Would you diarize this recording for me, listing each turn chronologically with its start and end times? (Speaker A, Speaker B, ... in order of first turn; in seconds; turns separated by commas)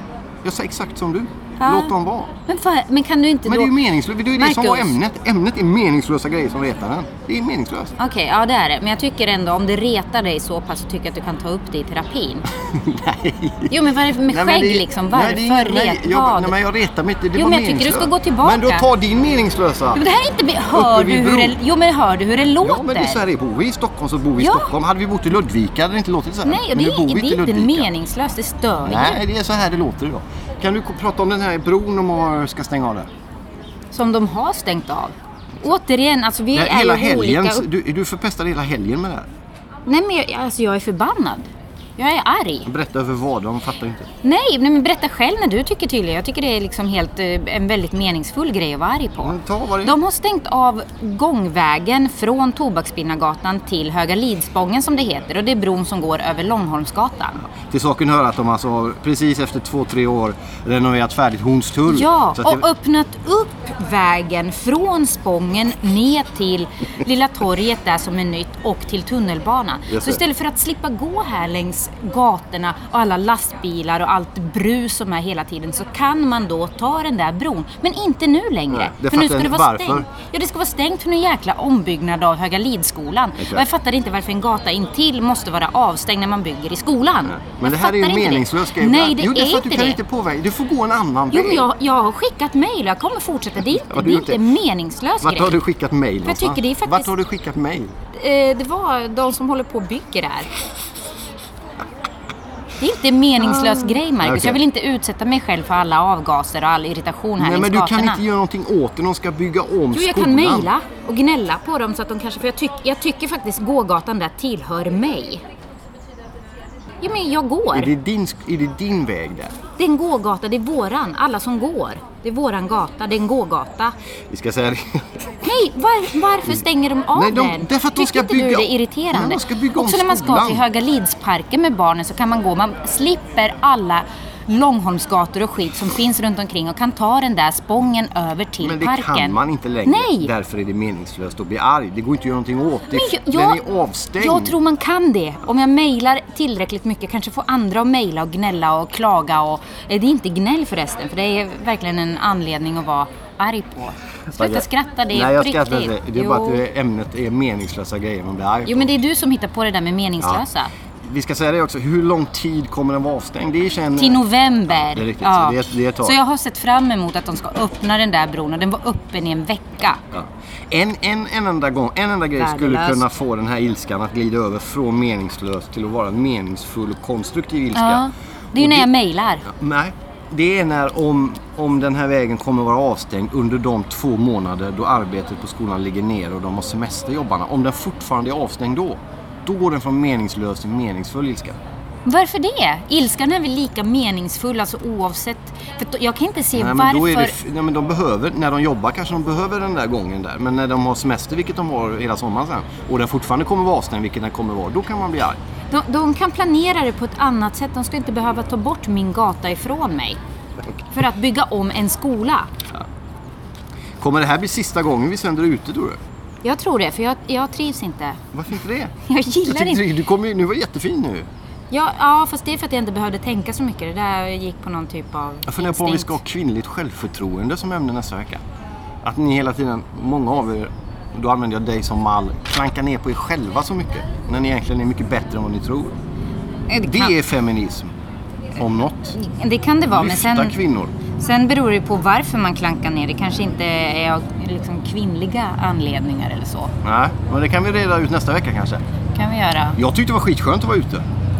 Speaker A: 0.4-2.3, Speaker B: 1.6-1.9, Speaker B: 2.5-3.8, Speaker A: 3.5-7.9, Speaker B: 4.3-5.0, Speaker B: 8.0-12.5, Speaker A: 12.6-20.0, Speaker B: 13.7-16.5, Speaker B: 17.3-18.9, Speaker B: 19.9-23.2, Speaker A: 20.7-21.5, Speaker A: 22.6-27.9, Speaker B: 24.4-24.7, Speaker B: 26.4-29.2, Speaker A: 28.8-33.1, Speaker B: 33.9-37.6, Speaker A: 36.5-39.3, Speaker B: 39.9-42.7, Speaker A: 42.6-44.1, Speaker B: 44.2-57.4, Speaker A: 49.2-50.0, Speaker A: 57.5-62.6, Speaker B: 61.9-90.0, Speaker A: 69.9-70.2, Speaker A: 78.7-80.1, Speaker A: 83.4-83.7, Speaker A: 87.3-91.7, Speaker B: 91.3-95.6, Speaker A: 93.7-94.4, Speaker A: 95.2-97.9, Speaker B: 96.2-97.1, Speaker B: 98.1-100.5, Speaker B: 102.8-108.2, Speaker A: 103.4-104.6, Speaker A: 107.4-110.7, Speaker B: 109.9-115.4, Speaker B: 117.0-117.9, Speaker A: 117.7-119.5, Speaker B: 119.8-123.9, Speaker A: 124.3-125.3, Speaker B: 125.4-140.3, Speaker A: 126.4-130.6, Speaker A: 138.6-144.5, Speaker B: 142.9-143.6, Speaker B: 144.2-156.6, Speaker A: 154.3-158.9, Speaker B: 158.7-160.7, Speaker A: 161.0-166.2, Speaker B: 163.9-170.0, Speaker A: 170.1-178.9, Speaker B: 172.4-173.0, Speaker B: 177.7-179.4, Speaker A: 179.4-191.6, Speaker B: 192.1-197.4, Speaker A: 196.5-205.4, Speaker B: 205.7-210.2, Speaker B: 210.9-212.5, Speaker A: 214.0-216.0, Speaker B: 216.4-218.2, Speaker A: 218.3-221.3, Speaker B: 219.1-219.8, Speaker B: 221.7-226.2, Speaker A: 225.5-228.4, Speaker A: 229.0-235.9, Speaker B: 236.7-237.1, Speaker A: 236.8-237.9, Speaker A: 238.5-239.1, Speaker B: 239.1-240.6, Speaker A: 239.9-240.9, Speaker B: 241.2-246.7, Speaker A: 246.8-248.8, Speaker B: 249.1-249.8, Speaker A: 249.8-251.0